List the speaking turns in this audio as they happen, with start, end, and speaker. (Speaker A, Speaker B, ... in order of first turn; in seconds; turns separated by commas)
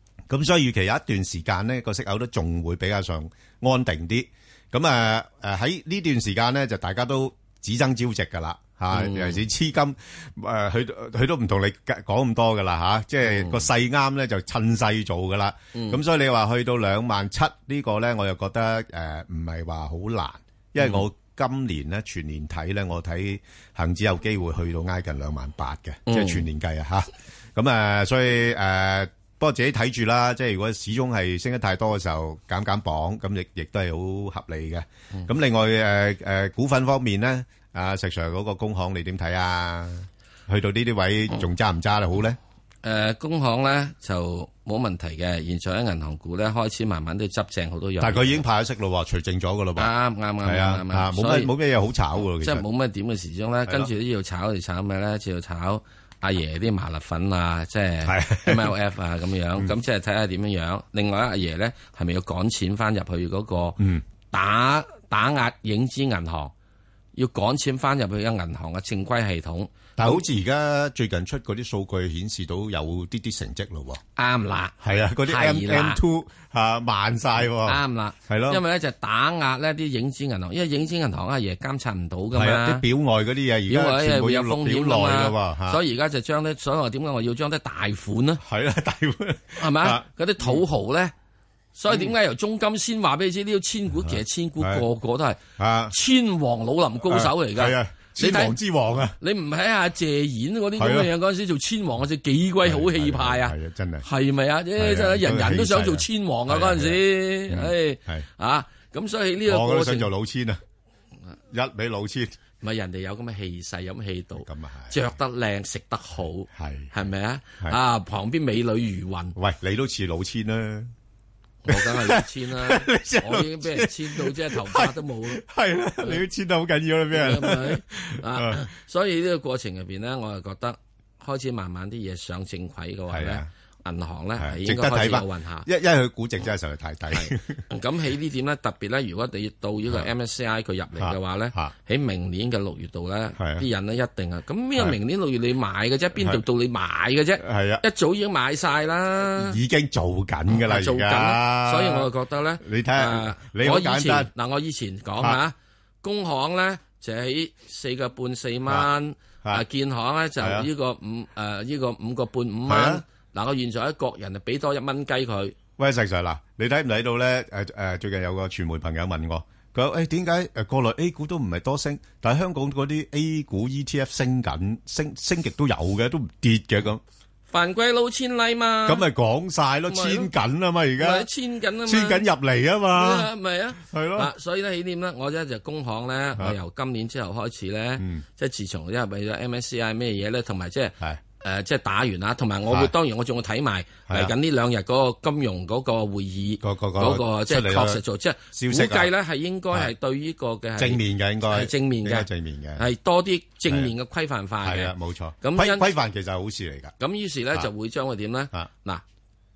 Speaker A: 0.3-42.4, Speaker B: 8.9-9.4, Speaker B: 13.2-13.7, Speaker B: 15.7-16.0, Speaker B: 20.8-21.0, Speaker B: 26.1-26.4, Speaker B: 42.8-48.4, Speaker A: 48.0-49.9, Speaker B: 49.8-51.5, Speaker A: 50.4-52.6, Speaker B: 52.4-63.8, Speaker A: 58.0-58.7, Speaker A: 63.8-64.0, Speaker B: 64.3-66.5, Speaker B: 67.1-70.2, Speaker A: 70.0-74.0, Speaker B: 74.2-74.7, Speaker A: 74.8-78.6, Speaker B: 75.3-76.0, Speaker B: 77.6-82.8, Speaker A: 82.3-85.8, Speaker B: 83.7-88.4, Speaker A: 88.4-90.6, Speaker B: 89.6-91.1, Speaker B: 91.8-98.5, Speaker A: 91.9-92.1, Speaker A: 93.9-94.8, Speaker A: 95.6-95.9, Speaker A: 97.1-99.2, Speaker B: 99.2-110.1, Speaker A: 100.8-101.1, Speaker A: 102.6-104.0, Speaker A: 104.8-108.3, Speaker A: 109.5-110.6, Speaker A: 111.5-112.3, Speaker B: 112.6-119.3, Speaker A: 114.4-115.0, Speaker A: 116.5-116.9, Speaker A: 119.3-120.9, Speaker B: 121.6-125.4, Speaker A: 121.7-128.6, Speaker B: 127.1-135.7, Speaker A: 133.1-133.5, Speaker A: 134.4-137.6, Speaker B: 137.1-149.6, Speaker A: 141.0-141.7, Speaker A: 143.4-143.6, Speaker A: 146.2-146.4, Speaker A: 147.4-147.8, Speaker A: 149.3-152.1, Speaker B: 150.5-165.5, Speaker A: 152.6-154.3, Speaker A: 160.4-160.7, Speaker A: 162.7-163.0, Speaker A: 165.8-177.0, Speaker B: 177.5-179.0, Speaker A: 178.8-181.2, Speaker B: 179.9-180.3, Speaker B: 181.0-182.2, Speaker A: 181.9-184.3, Speaker B: 182.9-205.9, Speaker A: 188.0-188.2, Speaker A: 192.7-192.9, Speaker A: 194.1-194.3, Speaker A: 196.6-198.0, Speaker A: 198.5-199.1, Speaker A: 200.8-202.8, Speaker A: 203.7-203.9, Speaker A: 204.6-206.9, Speaker B: 207.0-209.0